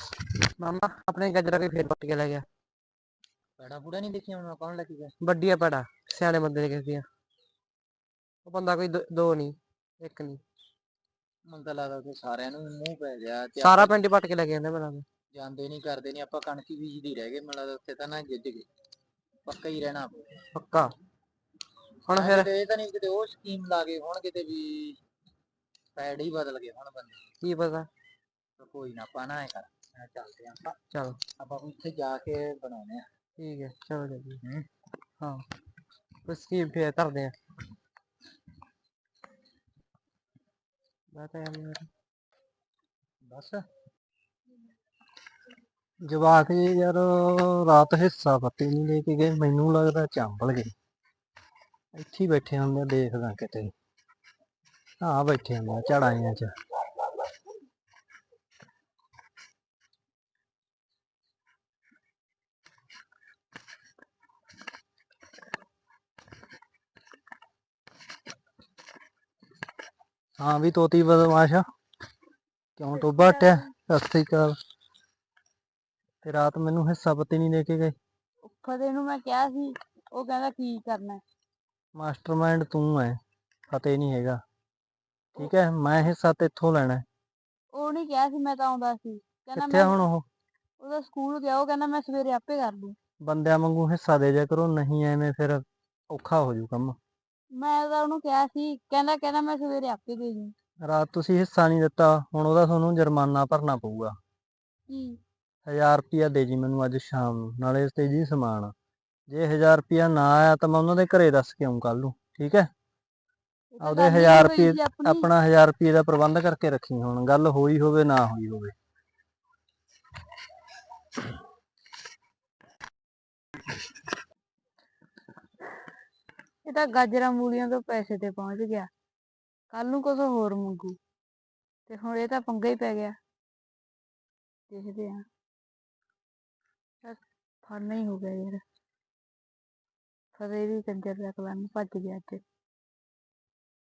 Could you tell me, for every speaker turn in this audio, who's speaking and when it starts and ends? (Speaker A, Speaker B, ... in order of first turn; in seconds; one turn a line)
Speaker A: 0.6-2.5
Speaker B: 3.6-5.1
Speaker A: 5.2-7.0
Speaker A: 8.5-10.4
Speaker B: 11.5-14.0
Speaker A: 13.6-15.1
Speaker B: 15.3-18.7
Speaker B: 19.4-20.4
Speaker A: 20.5-20.9
Speaker A: 22.1-22.5
Speaker B: 22.1-25.0
Speaker B: 26.0-27.2
Speaker A: 27.4-27.9
Speaker B: 28.6-30.8
Speaker A: 30.9-31.2
Speaker B: 31.4-33.0
Speaker A: 33.4-34.4
Speaker A: 36.2-37.3
Speaker A: 41.1-41.9
Speaker B: 43.3-43.6
Speaker C: 46.0-50.7
Speaker C: 51.9-53.7
Speaker C: 55.0-56.5
Speaker C: 70.4-71.6
Speaker C: 72.8-74.6
Speaker D: 73.0-73.6
Speaker C: 76.2-78.0
Speaker D: 78.4-81.2
Speaker C: 82.0-83.2
Speaker C: 83.7-84.4
Speaker C: 85.4-87.0
Speaker D: 87.7-90.0
Speaker C: 89.5-90.3
Speaker D: 90.8-93.0
Speaker C: 93.2-97.0
Speaker D: 97.5-100.5
Speaker C: 100.9-104.2
Speaker D: 104.9-105.2
Speaker C: 105.7-108.7
Speaker C: 109.3-112.7
Speaker D: 113.7-115.3
Speaker C: 113.8-118.7
Speaker D: 126.7-128.9
Speaker D: 129.7-131.0
Speaker D: 131.9-133.2
Speaker D: 134.7-135.2
Speaker D: 137.0-138.6
Speaker D: 140.3-142.4